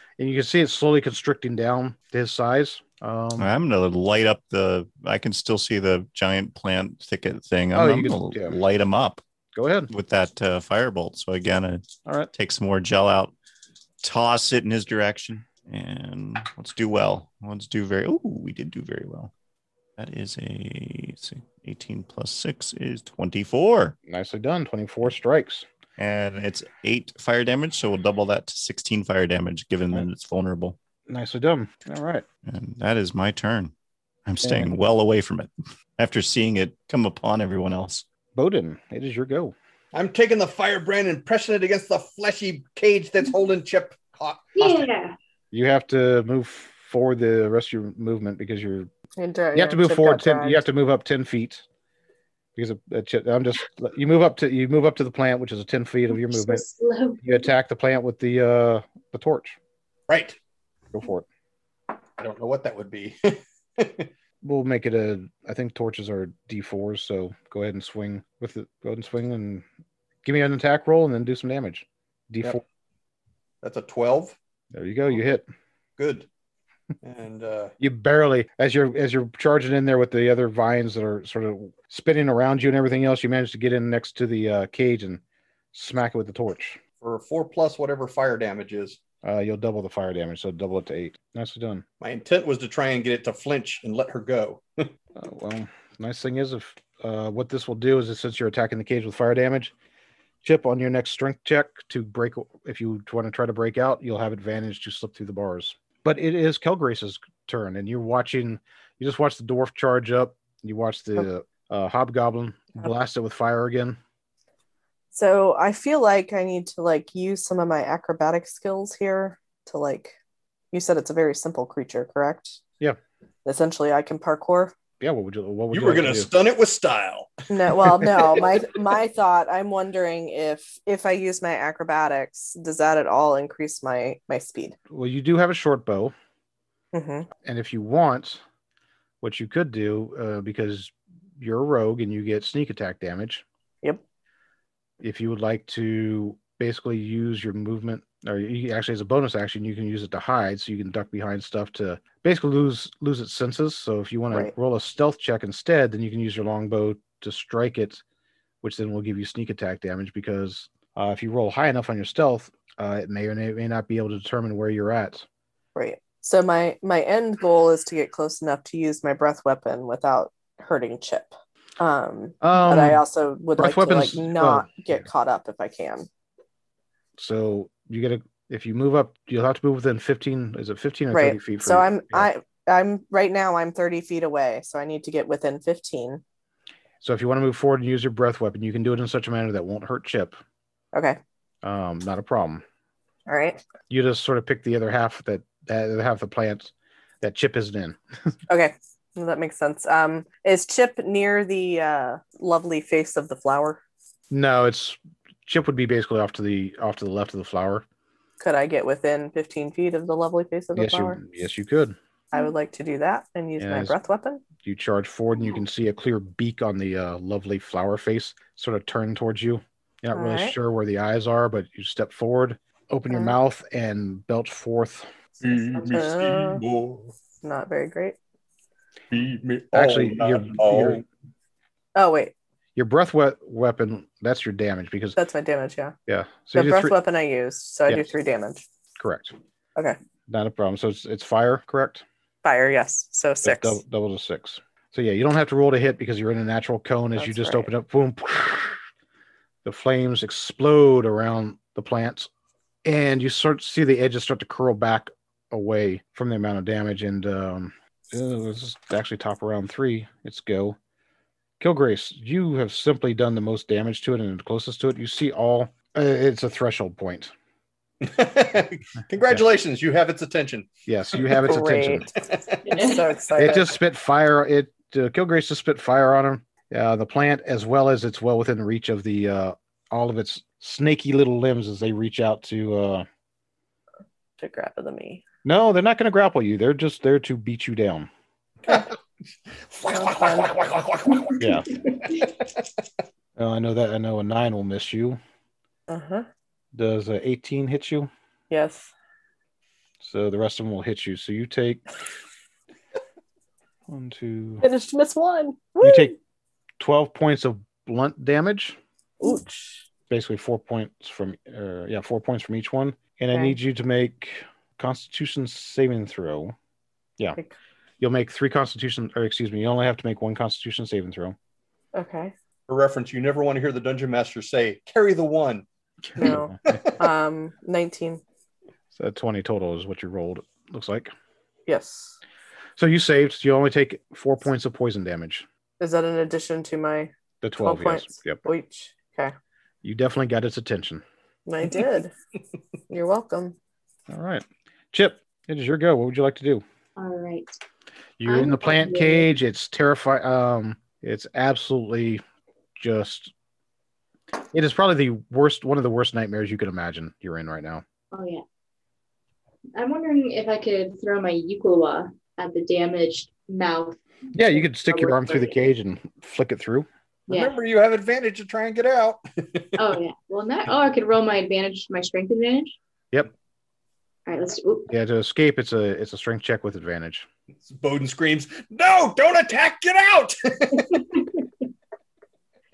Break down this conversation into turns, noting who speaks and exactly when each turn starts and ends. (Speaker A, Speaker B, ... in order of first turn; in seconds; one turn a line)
Speaker A: 0.2-3.5
Speaker B: 3.4-9.2
Speaker A: 7.7-8.6
Speaker A: 9.5-9.9
Speaker B: 9.9-13.3
Speaker B: 14.0-19.3
Speaker B: 20.0-23.9
Speaker A: 24.1-25.6
Speaker B: 26.0-30.8
Speaker A: 31.1-32.2
Speaker B: 32.5-33.7
Speaker B: 34.2-38.0
Speaker A: 34.4-34.7
Speaker A: 38.3-39.5
Speaker C: 39.9-44.9
Speaker D: 44.5-45.2
Speaker A: 45.5-48.9
Speaker E: 49.2-50.6
Speaker A: 49.5-51.6
Speaker A: 52.5-56.6
Speaker D: 56.1-57.4
Speaker A: 57.2-59.6
Speaker C: 60.1-60.4
Speaker A: 60.9-61.2
Speaker C: 62.2-64.1
Speaker A: 64.4-69.6
Speaker A: 70.2-72.6
Speaker C: 73.6-74.4
Speaker A: 74.7-75.5
Speaker C: 76.0-76.3
Speaker C: 77.0-77.7
Speaker A: 77.8-85.2
Speaker A: 85.7-86.8
Speaker C: 87.0-89.0
Speaker A: 89.2-91.8
Speaker C: 92.0-94.9
Speaker A: 95.2-99.7
Speaker A: 100.4-114.0
Speaker E: 115.1-120.1
Speaker E: 120.7-122.6
Speaker E: 123.4-124.7
Speaker A: 125.0-126.3
Speaker C: 125.7-128.7
Speaker E: 127.5-134.8
Speaker A: 134.9-136.1
Speaker E: 136.9-137.3
Speaker A: 137.4-138.4
Speaker A: 139.2-143.4
Speaker A: 145.0-158.0
Speaker A: 158.6-165.2
Speaker E: 165.7-176.1
Speaker A: 172.4-173.0
Speaker A: 173.6-175.1
Speaker A: 177.2-182.3
Speaker E: 181.1-186.2
Speaker A: 187.0-190.4
Speaker E: 190.9-191.2
Speaker A: 191.6-192.6
Speaker E: 193.3-193.6
Speaker A: 193.9-198.0
Speaker E: 198.5-203.8
Speaker A: 204.3-207.8
Speaker E: 208.4-211.2
Speaker A: 210.7-211.9
Speaker E: 212.3-214.4
Speaker A: 213.6-214.0
Speaker A: 214.6-225.1
Speaker E: 220.1-220.6
Speaker E: 223.1-223.3
Speaker C: 225.4-227.1
Speaker E: 225.9-226.6
Speaker E: 227.4-228.2
Speaker C: 229.1-231.0
Speaker A: 229.7-231.0
Speaker E: 231.9-232.3
Speaker A: 232.8-235.2
Speaker E: 235.2-235.9
Speaker A: 236.1-237.0
Speaker E: 236.5-238.6
Speaker A: 239.0-239.3
Speaker A: 240.3-242.0
Speaker E: 242.4-243.8
Speaker A: 243.4-248.8
Speaker E: 247.2-247.7
Speaker A: 249.6-252.3
Speaker A: 252.8-260.8
Speaker A: 261.6-267.3
Speaker C: 268.0-270.7
Speaker A: 270.9-272.1
Speaker E: 271.3-273.8
Speaker C: 272.2-272.6
Speaker D: 272.6-273.1
Speaker A: 273.4-283.1
Speaker E: 284.4-285.2
Speaker A: 285.4-288.1
Speaker C: 288.6-288.9
Speaker C: 289.5-292.3
Speaker E: 289.9-290.5
Speaker A: 291.4-291.7
Speaker A: 293.4-295.2
Speaker E: 295.9-296.3
Speaker A: 296.7-298.1
Speaker E: 298.5-298.9
Speaker A: 300.0-301.8
Speaker A: 303.9-304.6
Speaker E: 304.6-306.1
Speaker A: 305.8-306.1
Speaker A: 306.8-308.8
Speaker E: 309.2-309.8
Speaker A: 310.1-316.5
Speaker E: 313.3-313.6
Speaker A: 318.0-321.4
Speaker E: 321.9-322.3
Speaker C: 322.7-325.6
Speaker A: 326.1-326.8
Speaker E: 326.2-328.2
Speaker C: 326.3-326.9
Speaker A: 328.9-331.1
Speaker E: 331.6-332.1
Speaker A: 332.8-335.4
Speaker E: 335.8-339.3
Speaker A: 337.4-338.4
Speaker A: 339.8-341.0
Speaker E: 341.4-342.1
Speaker E: 342.9-343.6
Speaker A: 344.1-346.6
Speaker D: 347.0-347.6
Speaker A: 348.2-352.2
Speaker D: 348.2-349.3
Speaker A: 352.8-353.3
Speaker A: 354.5-357.8
Speaker D: 358.1-358.4
Speaker D: 359.7-365.6
Speaker A: 364.3-366.9
Speaker D: 367.3-367.5
Speaker C: 367.3-369.9
Speaker D: 369.8-372.7
Speaker D: 374.2-374.9
Speaker A: 374.9-377.3
Speaker C: 377.6-381.0
Speaker D: 380.9-381.4